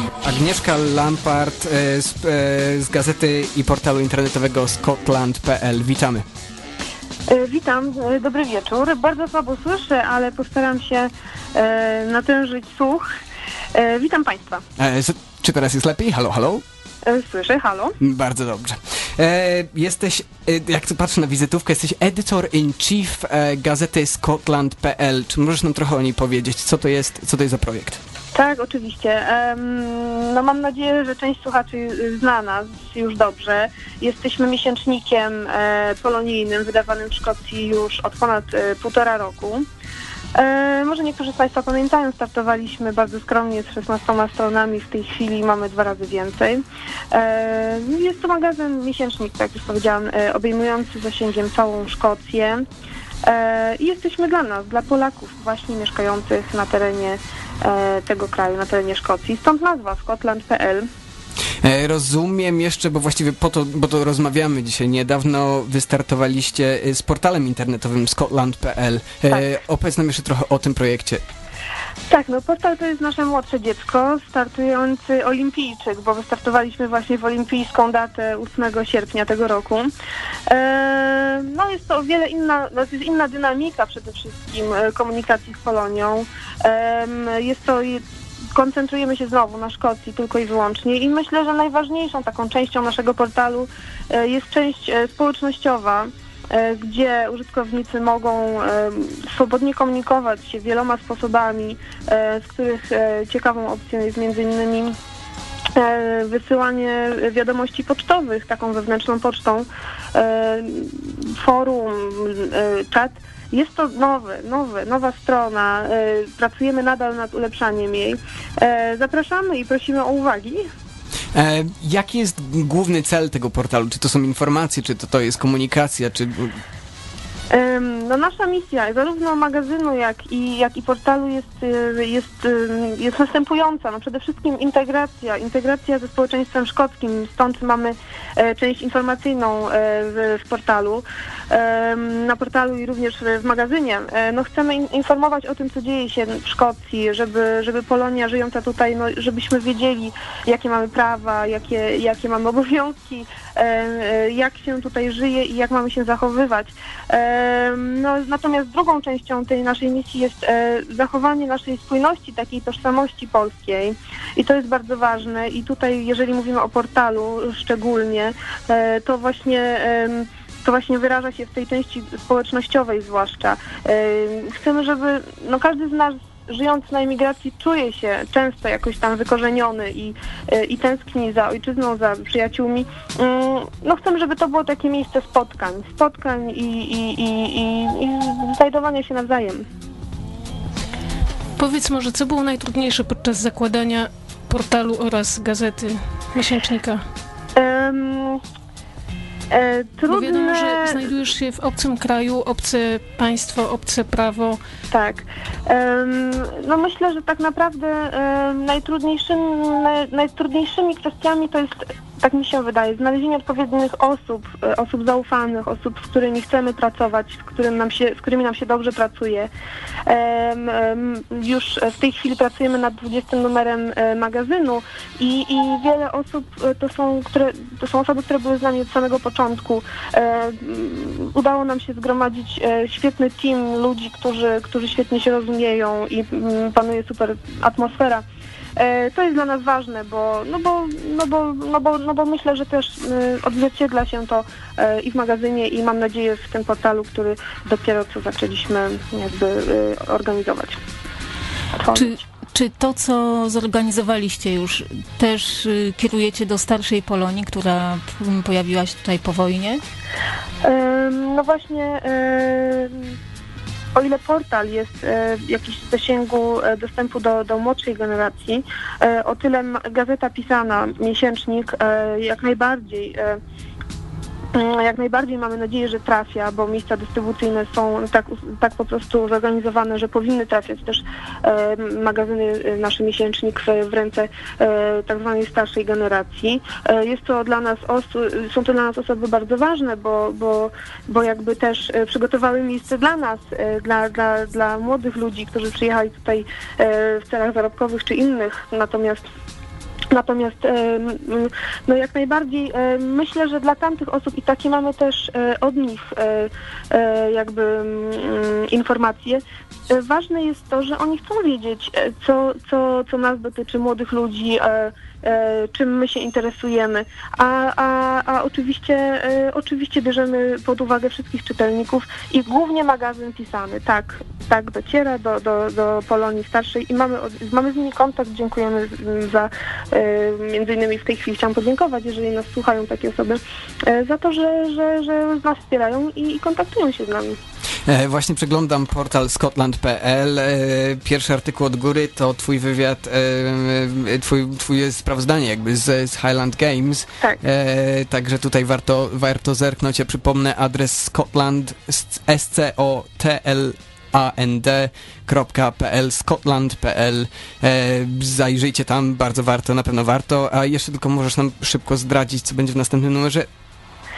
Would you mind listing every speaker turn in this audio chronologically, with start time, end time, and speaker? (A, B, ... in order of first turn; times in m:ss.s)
0:00.2-0:06.2 A
0:07.3-0:13.0 B
0:13.7-0:14.6 B
0:14.8-0:16.6 A
0:17.0-0:18.0 B
0:18.0-0:28.0 A
0:28.3-0:39.6 B
0:40.3-0:52.6 B
0:53.2-1:00.9 B
1:01.6-1:11.2 A
1:12.1-1:19.9 B
1:20.5-1:28.0 B
1:28.5-1:44.9 B
1:45.8-2:00.6 B
2:01.3-2:06.6 A
2:07.5-3:09.6 B
3:11.6-3:17.0 C
3:17.6-3:18.4 B
3:19.5-3:21.0 B
3:20.1-3:24.6 C
3:24.9-3:39.5 B
3:40.1-3:58.2 B
3:58.8-4:10.8 B
4:11.7-4:12.2 B
4:11.9-4:19.8 D
4:20.6-4:23.1 B
4:23.9-4:33.4 B
4:34.5-4:59.2 B
5:00.1-5:37.4 B
5:37.9-6:03.5 A